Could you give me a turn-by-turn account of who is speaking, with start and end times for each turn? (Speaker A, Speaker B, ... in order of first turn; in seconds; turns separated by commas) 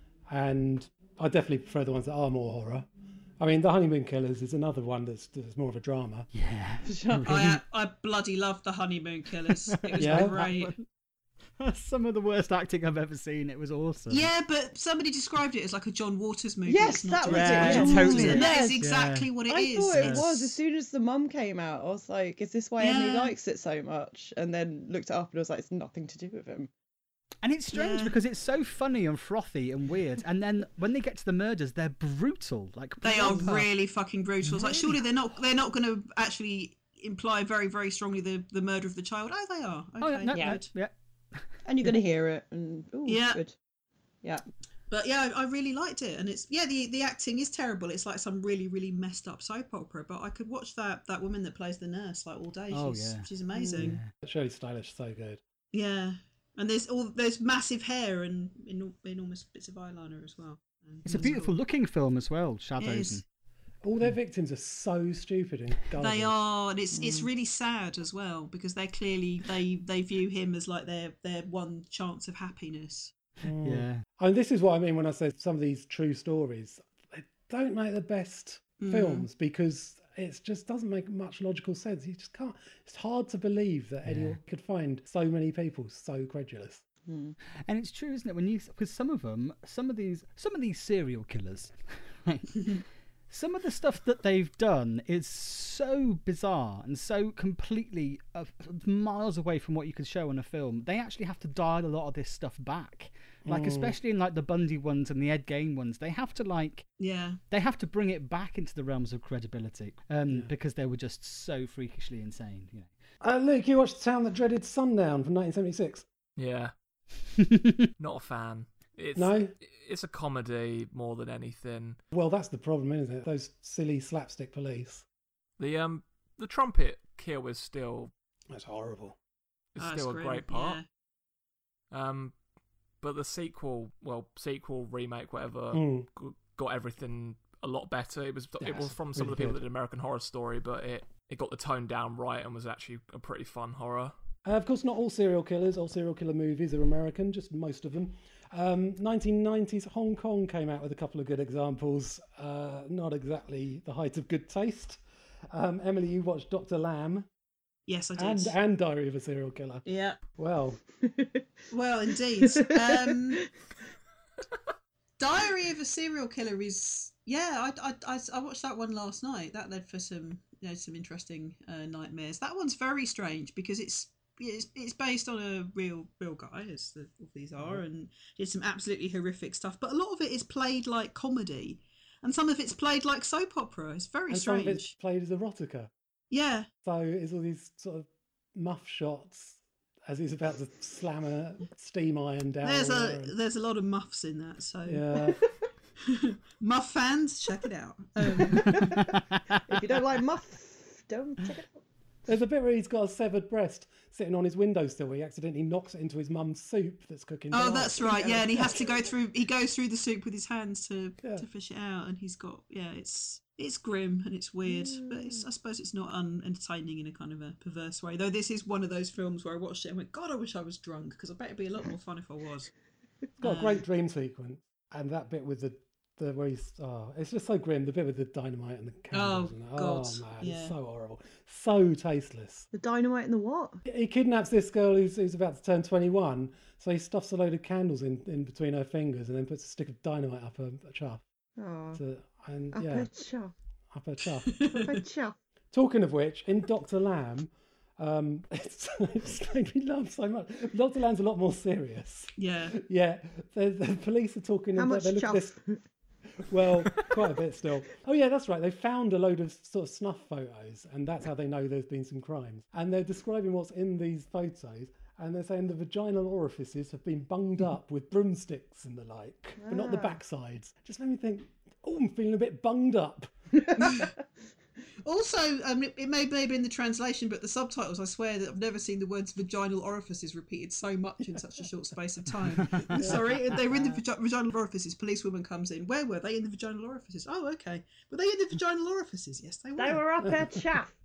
Speaker A: 0.3-2.9, Speaker A: 3.4-6.3, Speaker B: 6.3-7.6, Speaker C: 6.8-7.3, Speaker D: 7.3-10.7, Speaker B: 9.7-10.9, Speaker A: 10.0-10.4, Speaker B: 11.6-14.3, Speaker D: 14.1-20.3, Speaker C: 16.7-18.8, Speaker B: 17.2-19.3, Speaker C: 19.5-26.7, Speaker B: 19.9-20.6, Speaker D: 22.8-23.4, Speaker B: 27.4-33.7, Speaker D: 27.7-28.1, Speaker D: 33.0-40.7, Speaker B: 34.4-35.0, Speaker B: 40.0-41.5, Speaker C: 40.3-40.6, Speaker C: 41.6-43.5, Speaker D: 43.1-43.4, Speaker D: 44.9-54.0, Speaker B: 52.7-54.1, Speaker C: 53.5-54.0, Speaker A: 54.2-55.4, Speaker D: 55.7-61.6, Speaker B: 61.0-63.2, Speaker D: 62.8-63.2, Speaker A: 63.8-66.3, Speaker D: 66.0-73.1, Speaker C: 66.9-67.3, Speaker A: 73.4-86.8, Speaker B: 73.6-74.0, Speaker D: 78.8-79.3, Speaker B: 84.0-84.4, Speaker C: 87.1-87.3, Speaker B: 87.7-106.9, Speaker A: 103.5-104.0, Speaker D: 107.0-107.4, Speaker B: 107.5-112.9, Speaker A: 113.2-116.1, Speaker E: 116.4-116.7, Speaker E: 118.0-122.0, Speaker A: 119.2-119.5, Speaker A: 122.1-125.0, Speaker E: 125.6-128.1, Speaker A: 128.5-129.2, Speaker E: 129.7-130.8, Speaker D: 129.8-130.9, Speaker E: 131.9-132.3, Speaker E: 133.0-144.1, Speaker A: 135.7-136.1, Speaker A: 138.6-139.6, Speaker A: 144.4-157.3, Speaker D: 157.9-158.6, Speaker A: 158.2-160.8, Speaker D: 159.8-160.2, Speaker C: 161.0-161.4, Speaker D: 161.7-163.5, Speaker D: 165.2-184.9, Speaker A: 177.6-177.8, Speaker A: 184.3-185.9, Speaker D: 186.3-186.7, Speaker A: 186.8-193.3, Speaker D: 192.6-195.2, Speaker A: 194.9-195.4, Speaker D: 196.2-198.6, Speaker B: 198.6-199.2, Speaker C: 199.7-201.8, Speaker A: 202.3-208.2, Speaker D: 207.5-222.7, Speaker C: 208.0-208.9, Speaker A: 223.4-232.7, Speaker D: 223.4-223.8, Speaker D: 229.1-230.7, Speaker C: 232.7-233.8, Speaker A: 233.8-241.2, Speaker C: 241.6-242.0, Speaker A: 241.9-243.1, Speaker C: 242.7-243.5, Speaker A: 243.9-244.5, Speaker D: 244.5-244.9, Speaker C: 244.6-245.4, Speaker A: 245.7-255.6, Speaker D: 252.4-252.7, Speaker C: 254.8-255.8, Speaker A: 256.5-273.3, Speaker C: 269.6-270.2, Speaker D: 273.8-274.1, Speaker D: 275.0-290.1, Speaker B: 282.6-282.9, Speaker A: 282.9-283.2, Speaker C: 289.8-290.9